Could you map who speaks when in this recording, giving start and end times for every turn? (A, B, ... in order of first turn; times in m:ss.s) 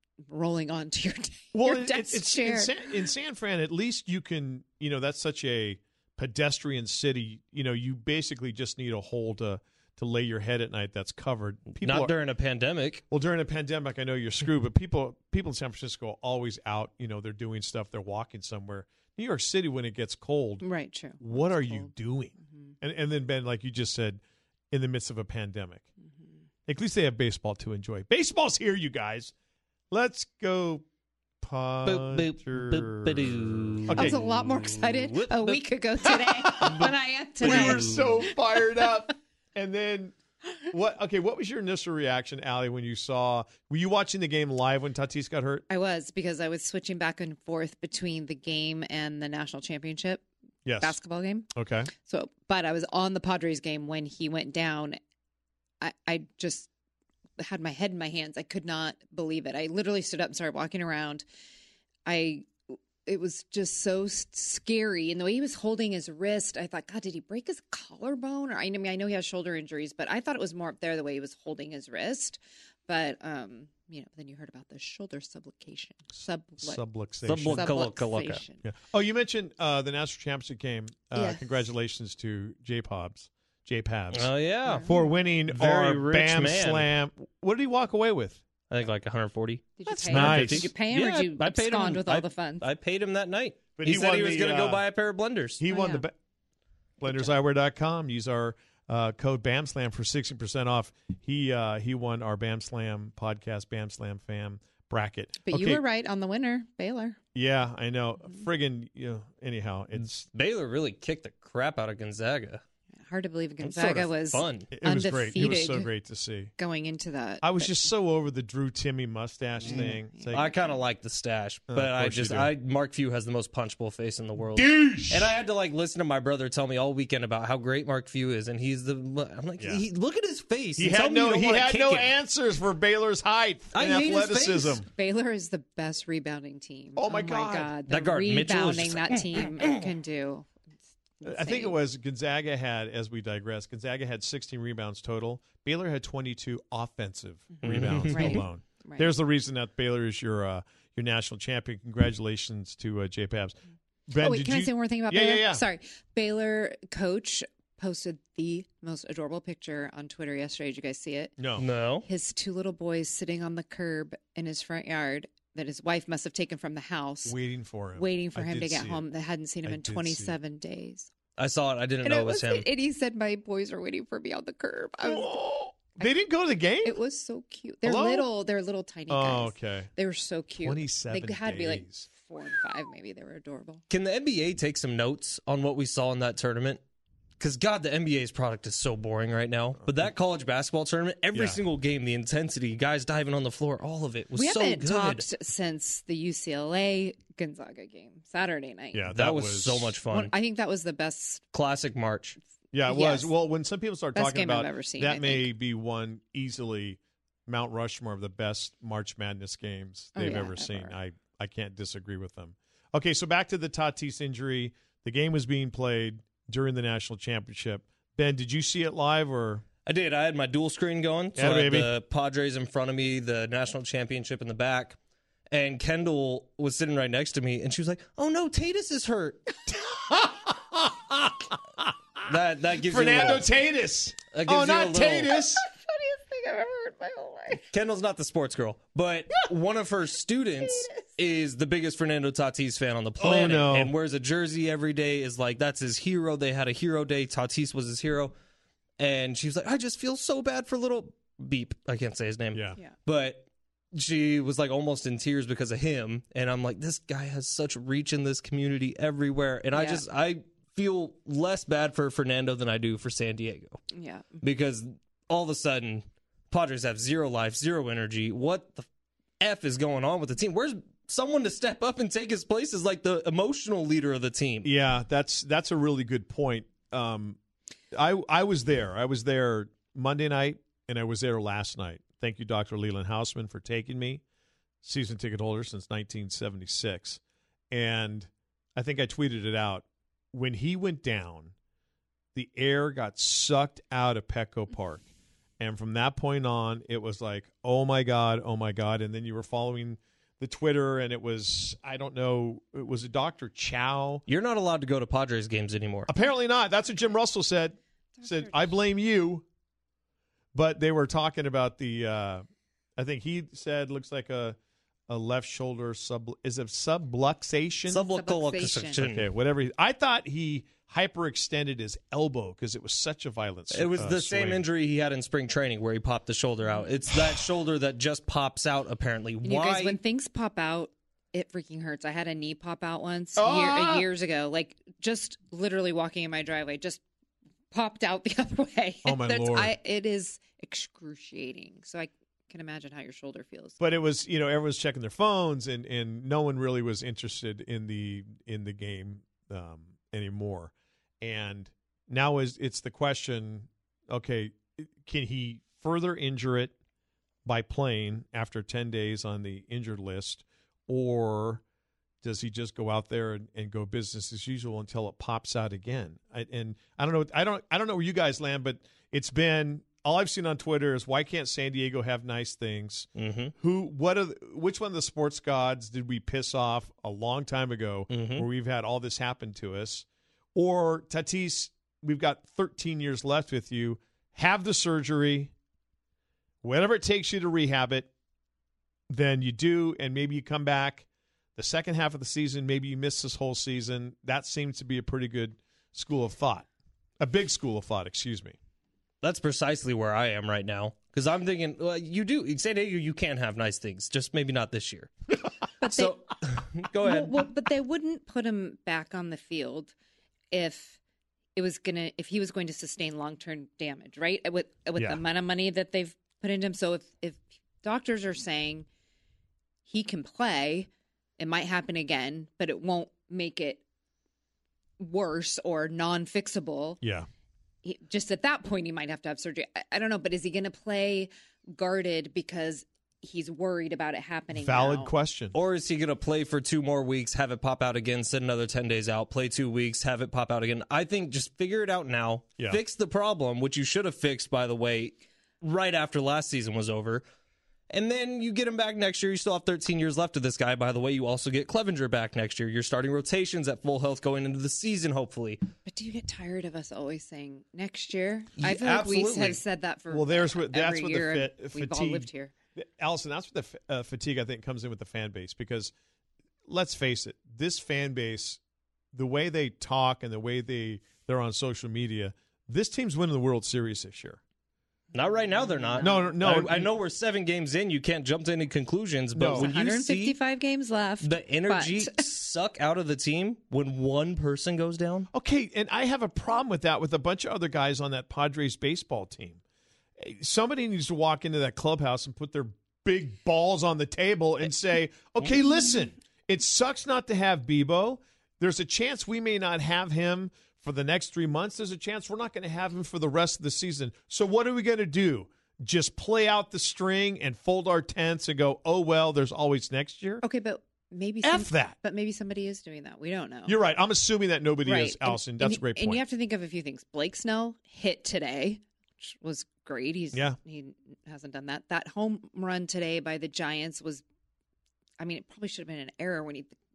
0:00.3-0:02.8 A
0:01.5-0:12.1 B
0:11.8-0:13.0 C
0:13.1-0:20.6 B
0:20.6-0:21.9 A
0:21.2-0:25.9 B
0:26.7-0:29.3 B
0:29.9-0:30.8 B
0:31.4-0:34.2 B
0:31.8-0:38.0 C
0:33.9-0:38.2 A
0:36.3-0:36.9 B
0:37.4-0:40.1 B
0:40.7-0:45.6 B
0:45.7-0:50.2 A
0:50.6-0:51.0 B
0:50.8-0:55.0 A
0:51.5-0:51.9 B
0:55.8-0:56.7 A
0:57.4-1:01.2 A
1:02.0-1:02.5 A
1:03.0-1:16.8 A
1:16.6-1:17.7 B
1:17.2-1:18.4 C
1:17.5-1:18.6 A
1:18.6-1:28.4 B
1:21.1-1:21.6 A
1:24.1-1:24.9 C
1:24.6-1:24.9 A
1:25.5-1:26.9 C
1:28.7-1:35.6 C
1:29.8-1:32.7 A
1:29.9-1:30.7 B
1:33.8-1:34.8 B
1:35.6-1:36.1 B
1:35.7-1:36.0 A
1:37.0-1:45.8 B
1:37.0-1:37.3 A
1:45.4-1:47.2 A
1:47.3-1:50.3 B
1:50.0-1:52.6 C
1:53.0-1:55.9 A
1:53.6-1:54.7 C
1:54.7-1:56.5 B
1:56.6-1:57.8 A
1:57.4-2:00.5 B
1:59.6-2:00.6 A
1:59.7-2:12.1 C
2:01.7-2:02.5 B
2:04.5-2:05.3 B
2:10.8-2:14.9 B
2:13.7-2:14.8 C
2:14.9-2:20.5 A
2:17.0-2:17.7 B
2:17.9-2:19.8 C
2:21.2-2:21.8 A
2:21.2-2:35.6 B
2:27.6-2:29.1 A
2:27.6-2:28.4 C
2:34.2-2:41.4 A
2:41.4-2:41.6 B
2:41.6-2:42.1 C
2:42.0-2:47.3 A
2:47.2-2:49.0 B
2:48.0-2:51.1 A
2:49.6-2:50.3 B
2:51.4-2:52.6 C
2:52.0-2:55.4 A
2:55.0-2:57.0 B
2:56.8-3:03.8 A
2:57.8-2:58.3 B
2:59.1-2:59.9 B
3:00.6-3:02.1 B
3:03.9-3:06.8 C
3:07.4-3:15.2 C
3:11.3-3:11.6 B
3:14.3-3:19.1 A
3:18.9-3:19.9 B
3:19.1-3:20.3 C
3:20.1-3:21.4 A
3:21.5-3:22.4 C
3:22.7-3:39.6 B
3:22.9-3:23.3 A
3:24.1-3:25.5 A
3:30.1-3:30.9 A
3:39.8-3:45.0 C
3:41.4-3:41.9 B
3:45.5-3:49.6 C
3:49.7-3:52.2 B
3:52.2-3:53.5 C
3:52.8-3:55.6 B
3:54.3-3:55.4 C
3:55.6-3:57.6 A
3:57.7-4:08.3 C
4:00.6-4:01.0 A
4:03.2-4:03.9 B
4:09.0-4:23.8 C
4:12.5-4:12.8 B
4:19.7-4:20.0 A
4:23.9-4:24.4 A
4:24.4-4:28.9 C
4:29.4-4:34.7 C
4:34.6-4:37.4 B
4:37.9-4:44.2 B
4:44.8-4:47.2 B
4:47.7-4:51.5 B
4:52.3-4:55.0 B
4:55.6-5:04.2 B
5:04.3-5:06.1 C
5:06.1-5:09.4 B
5:08.2-5:08.6 A
5:10.5-5:12.4 B
5:13.0-5:14.6 B
5:15.1-5:18.0 B
5:17.9-5:19.0 A
5:17.9-5:19.3 C
5:18.9-5:24.6 B
5:23.7-5:30.0 C
5:29.4-5:37.0 A
5:33.4-5:34.1 B
5:37.7-5:43.8 A
5:39.0-5:39.7 B
5:43.8-5:56.7 B
5:57.4-6:01.6 B
6:02.2-6:25.5 B
6:13.2-6:13.5 C
6:18.1-6:18.5 C
6:26.6-6:28.1 B
6:29.1-6:36.7 B
6:37.2-6:38.6 B
6:39.2-6:45.1 C
6:45.8-6:46.2 A
6:45.8-6:47.5 C
6:47.0-6:49.9 A
6:50.5-6:51.0 A
6:51.6-6:58.9 A
6:55.0-6:55.2 B
6:59.9-7:00.9 A
7:01.4-7:03.8 A
7:05.0-7:07.0 A
7:07.0-7:07.3 B
7:07.8-7:15.1 A
7:14.5-7:15.6 B
7:15.5-7:27.2 C
7:27.9-7:35.6 C
7:35.8-7:42.5 A
7:38.6-7:39.6 C
7:40.1-7:45.9 B
7:46.7-7:48.6 B
7:49.1-7:54.4 B
7:55.1-8:00.4 C
7:55.6-7:56.2 A
7:56.0-7:56.9 B
7:59.3-7:59.7 B
7:59.5-8:02.2 A
8:01.2-8:05.3 C
8:05.3-8:09.6 B
8:10.2-8:30.4 B
8:30.4-8:33.8 A
8:31.4-8:32.0 B
8:33.6-8:36.2 B
8:34.8-8:44.2 A
8:40.3-8:40.6 B
8:45.2-8:46.8 A